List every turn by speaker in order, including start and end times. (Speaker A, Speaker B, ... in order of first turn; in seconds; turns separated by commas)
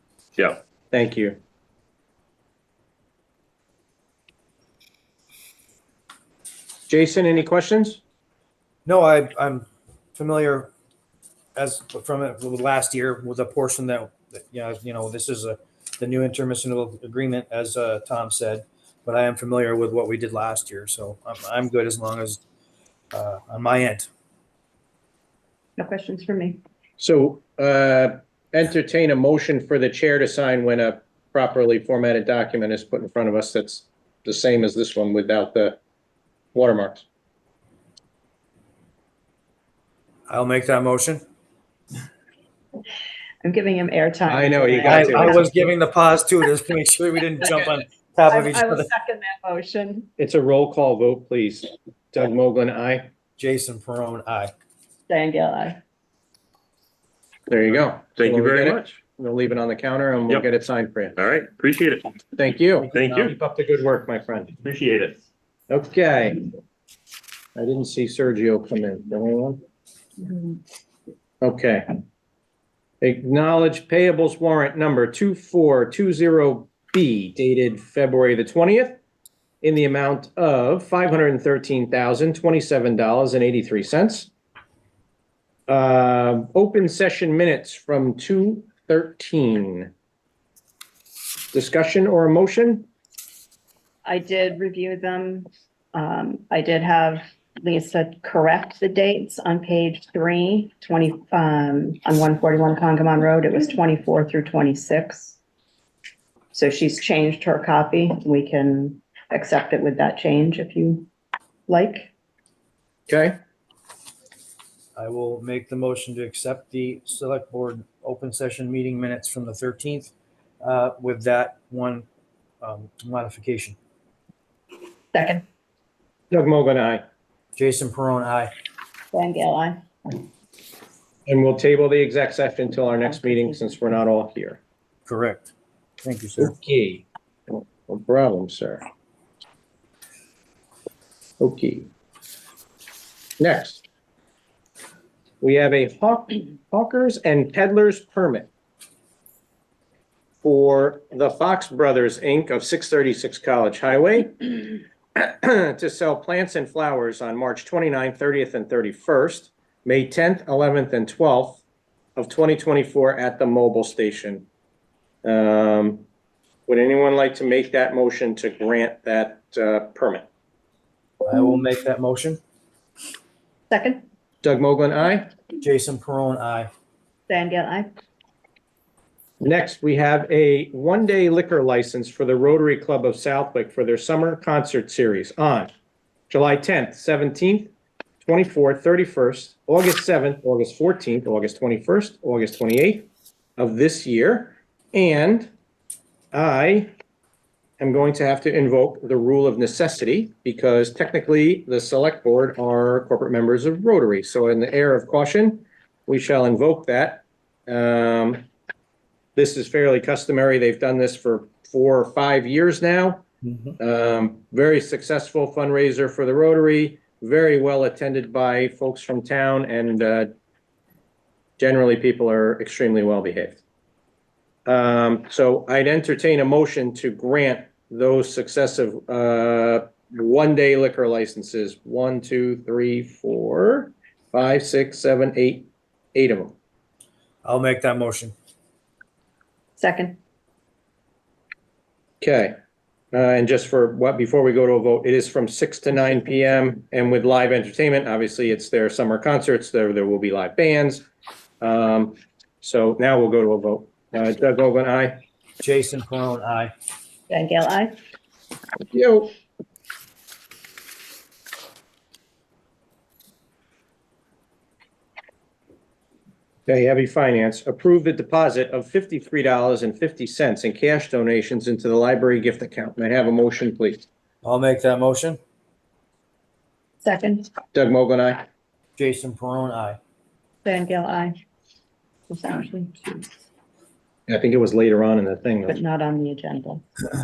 Speaker A: 0.9-1.4, Speaker A: 6.9-8.0, Speaker B: 8.8-10.7, Speaker B: 11.6-22.4, Speaker B: 23.1-24.1, Speaker C: 25.8-26.6, Speaker A: 27.0-35.8, Speaker A: 36.5-37.0, Speaker B: 40.3-41.2, Speaker C: 43.4-45.5, Speaker A: 44.3-45.4, Speaker B: 44.8-48.9, Speaker C: 48.3-50.1, Speaker A: 50.2-53.1, Speaker B: 53.4-54.5, Speaker C: 55.1-55.8, Speaker A: 57.5-61.1, Speaker D: 58.2-58.9, Speaker D: 61.2-62.2, Speaker A: 62.4-64.5, Speaker D: 62.9-63.3, Speaker D: 64.6-65.2, Speaker A: 65.7-66.4, Speaker A: 67.5-69.6, Speaker A: 71.4-71.9, Speaker A: 73.0-79.0, Speaker A: 79.6-84.3, Speaker A: 85.7-89.9, Speaker A: 91.5-92.9, Speaker C: 94.0-105.4, Speaker C: 106.5-111.1, Speaker C: 111.7-112.1, Speaker A: 113.1-113.4, Speaker B: 115.0-122.0, Speaker B: 122.6-123.8, Speaker C: 125.1-125.4, Speaker A: 126.3-127.0, Speaker B: 127.5-128.5, Speaker C: 129.1-129.8, Speaker A: 131.2-134.6, Speaker C: 133.0-133.8, Speaker B: 135.1-135.5, Speaker B: 136.0-136.5, Speaker A: 136.4-138.8, Speaker A: 141.4-141.9, Speaker A: 143.4-143.8, Speaker A: 145.4-148.5, Speaker A: 150.4-161.6, Speaker A: 162.2-164.4, Speaker A: 165.2-166.0, Speaker A: 166.7-170.2, Speaker B: 171.2-172.4, Speaker C: 173.7-174.1, Speaker A: 174.4-175.3, Speaker B: 175.6-176.7, Speaker C: 177.3-177.9, Speaker A: 179.4-185.7, Speaker A: 186.3-195.5, Speaker A: 196.3-196.9, Speaker A: 197.8-208.4, Speaker A: 209.3-213.2, Speaker A: 213.8-220.3, Speaker A: 221.6-223.6, Speaker A: 224.7-236.5, Speaker B: 237.4-238.3, Speaker C: 239.8-240.2, Speaker A: 242.2-242.5, Speaker A: 243.1-251.1, Speaker A: 251.6-255.2, Speaker B: 255.6-256.7, Speaker C: 257.3-257.9, Speaker A: 258.9-259.3, Speaker A: 266.7-274.0, Speaker B: 274.4-275.4, Speaker C: 277.0-277.5, Speaker A: 277.7-278.4, Speaker B: 279.0-280.0, Speaker C: 280.6-281.3, Speaker C: 282.3-283.3, Speaker A: 284.3-285.8, Speaker C: 285.6-286.8